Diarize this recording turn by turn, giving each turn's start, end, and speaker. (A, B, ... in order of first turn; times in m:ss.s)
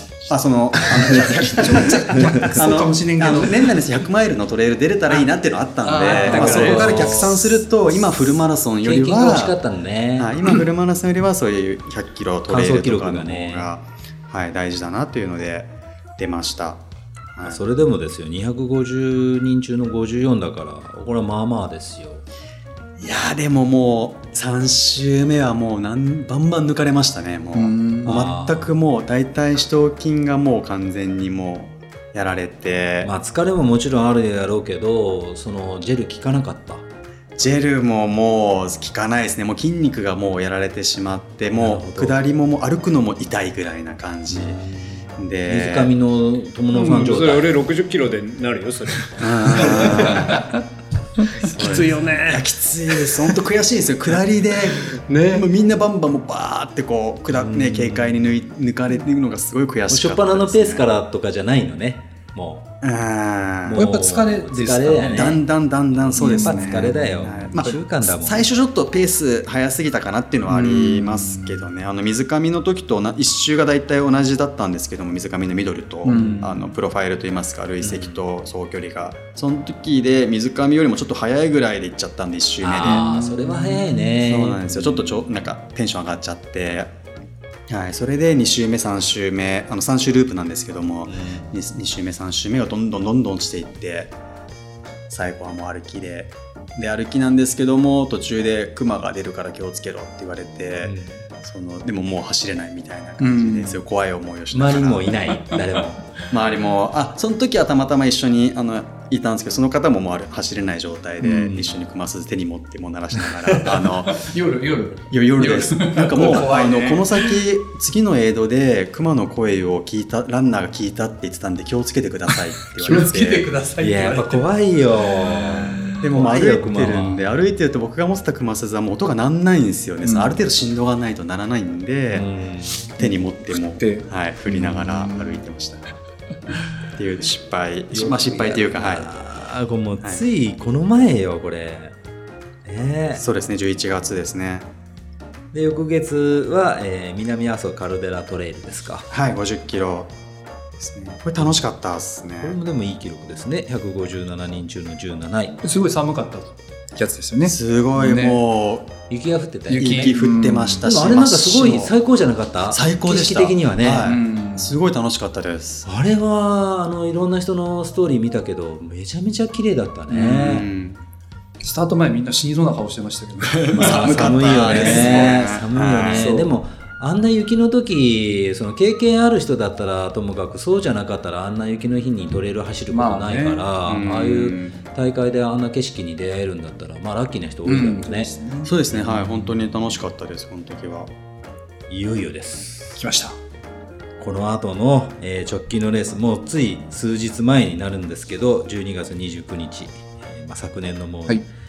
0:00.3-0:09.6 A
0:00.7-0:01.6 B
0:01.1-0:03.7 C
0:02.1-0:02.7 B
0:05.8-0:07.4 C
0:06.1-0:07.6 B
0:06.2-0:06.8 D
0:08.8-0:10.5 B
0:10.2-0:17.6 A
0:12.5-0:13.7 B
0:17.4-0:22.2 B
0:23.0-0:33.1 A
0:27.6-0:28.2 C
0:28.0-0:28.7 B
0:33.0-0:36.8 B
0:37.4-0:44.6 A
0:41.6-0:42.2 B
0:44.3-0:47.6 B
0:45.2-0:45.9 A
0:46.7-0:50.3 D
0:49.2-0:50.5 A
0:51.4-1:00.9 A
0:51.4-0:52.5 D
0:55.1-0:55.4 C
0:57.3-0:58.3 B
0:59.9-1:02.7 B
1:02.8-1:03.9 A
1:03.6-1:05.4 B
1:03.8-1:05.4 C
1:05.1-1:23.1 A
1:06.0-1:08.5 B
1:06.2-1:07.8 C
1:10.5-1:11.7 C
1:16.0-1:16.6 C
1:16.1-1:16.5 B
1:17.8-1:18.2 B
1:22.6-1:25.2 B
1:22.8-1:24.1 C
1:24.2-1:26.9 A
1:27.7-1:34.1 A
1:31.1-1:31.5 B
1:35.1-1:45.3 A
1:40.8-1:41.2 B
1:43.2-1:43.8 C
1:44.5-1:46.0 B
1:46.3-1:54.3 A
1:51.2-1:51.8 B
1:54.1-1:57.4 C
1:55.1-2:03.5 A
2:02.8-2:04.5 C
2:03.8-2:07.3 B
2:05.1-2:06.0 C
2:06.0-2:12.3 A
2:10.0-2:10.4 C
2:12.1-2:12.9 B
2:13.0-2:15.8 A
2:13.5-2:15.4 C
2:16.9-2:19.1 A
2:17.9-2:22.0 B
2:22.6-2:23.2 B
2:23.1-2:24.7 A
2:25.5-2:29.1 B
2:29.1-2:30.1 A
2:30.8-2:32.6 A
2:32.4-2:35.6 B
2:35.6-2:38.4 C
2:37.5-2:38.9 A
2:39.1-2:40.1 B
2:39.7-2:40.8 C
2:39.7-2:41.9 A
2:40.8-2:44.1 B
2:42.7-2:45.9 A
2:44.0-2:44.7 C
2:45.8-2:50.7 B
2:50.1-2:51.0 A
2:51.6-2:55.4 C
2:53.7-3:08.3 B
2:53.8-2:56.3 A
2:56.1-2:56.5 C
3:02.9-3:03.7 C
3:03.8-3:04.8 A
3:07.6-3:08.7 C
3:08.6-3:11.1 A
3:08.9-3:09.6 B
3:11.9-3:12.9 B
3:13.0-3:13.4 C
3:14.2-3:21.4 B